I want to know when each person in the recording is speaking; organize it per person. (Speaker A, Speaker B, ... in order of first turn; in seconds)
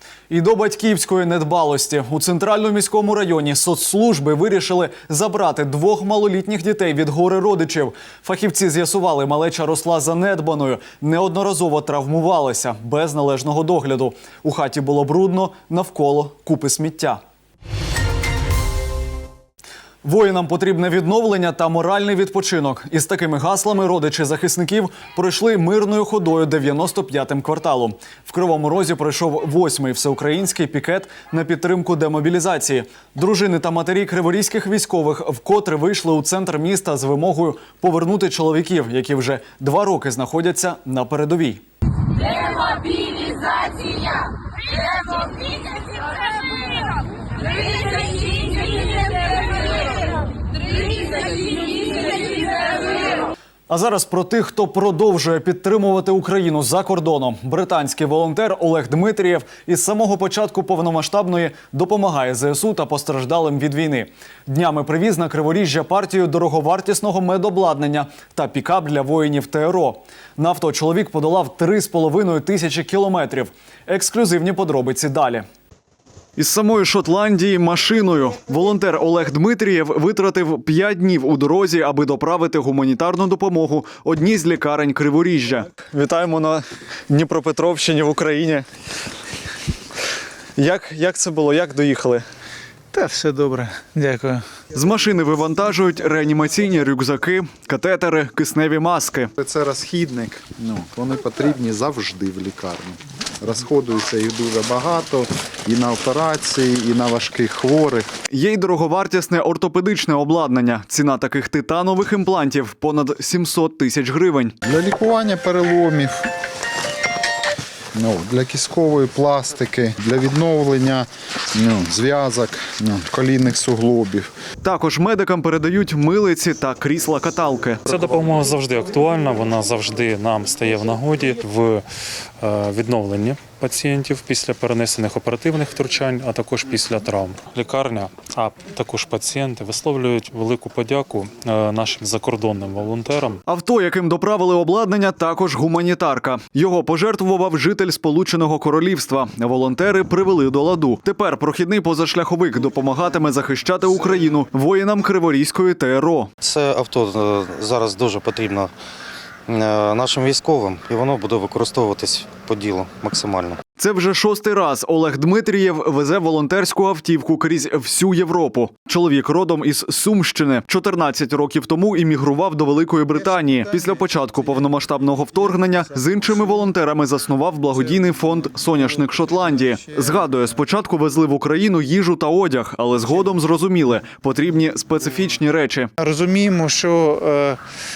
Speaker A: 0.3-17.2, 20.0-41.6, 53.7-75.4, 76.4-88.7, 90.6-92.2, 94.7-99.3, 108.3-114.5, 124.6-127.8, 143.5-156.3, 163.8-185.9
Speaker B: 92.9-94.4, 186.0-187.6
Speaker C: 99.4-108.1, 114.6-116.3, 117.9-124.3
Speaker D: 127.9-131.8, 132.4-143.4
Speaker E: 156.4-158.7, 159.5-163.6